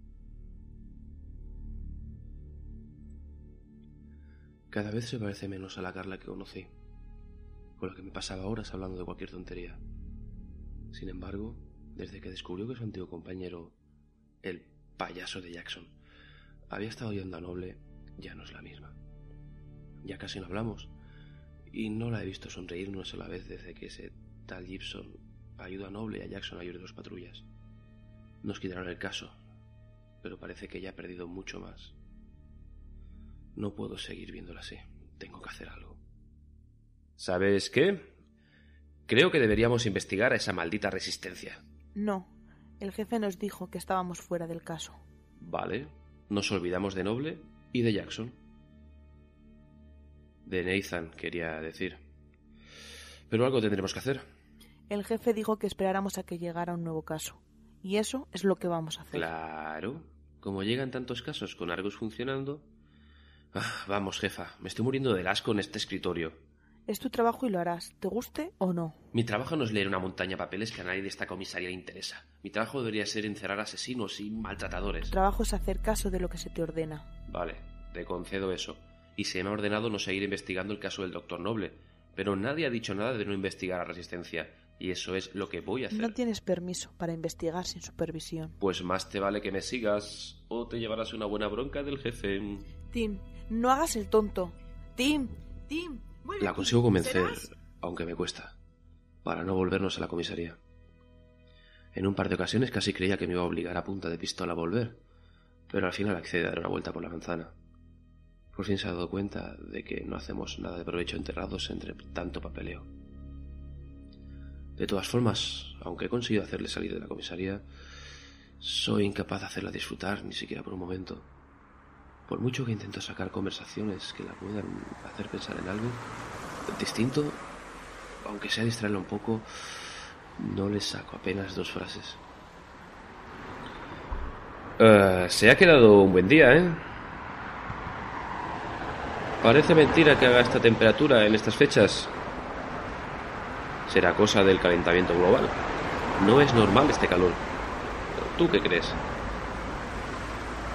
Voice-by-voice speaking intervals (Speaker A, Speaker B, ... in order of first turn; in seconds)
Speaker A: 4.7-6.7, 7.8-9.8, 10.9-13.8, 14.4-15.9, 16.7-18.9, 20.0-20.9, 21.7-27.4, 28.4-29.4, 30.2-31.9, 33.6-36.0, 37.2-38.1, 39.1-41.6, 45.4-48.4, 50.5-52.0, 53.3-54.3, 59.1-62.7, 63.5-66.4, 69.1-75.1, 77.3-86.1, 88.6-92.7, 96.4-98.5, 99.2-100.6, 101.9-105.0, 105.7-107.5, 108.5-112.9, 114.8-117.7, 118.6-121.3, 122.3-126.1, 126.7-127.4, 128.2-129.8, 130.4-132.2, 134.8-136.8, 139.4-142.1, 143.9-145.6, 146.2-147.4, 148.2-149.0
Speaker B: 42.0-42.3, 42.8-45.0, 54.9-59.3, 66.9-69.0, 75.1-77.0, 85.9-88.5, 92.9-97.5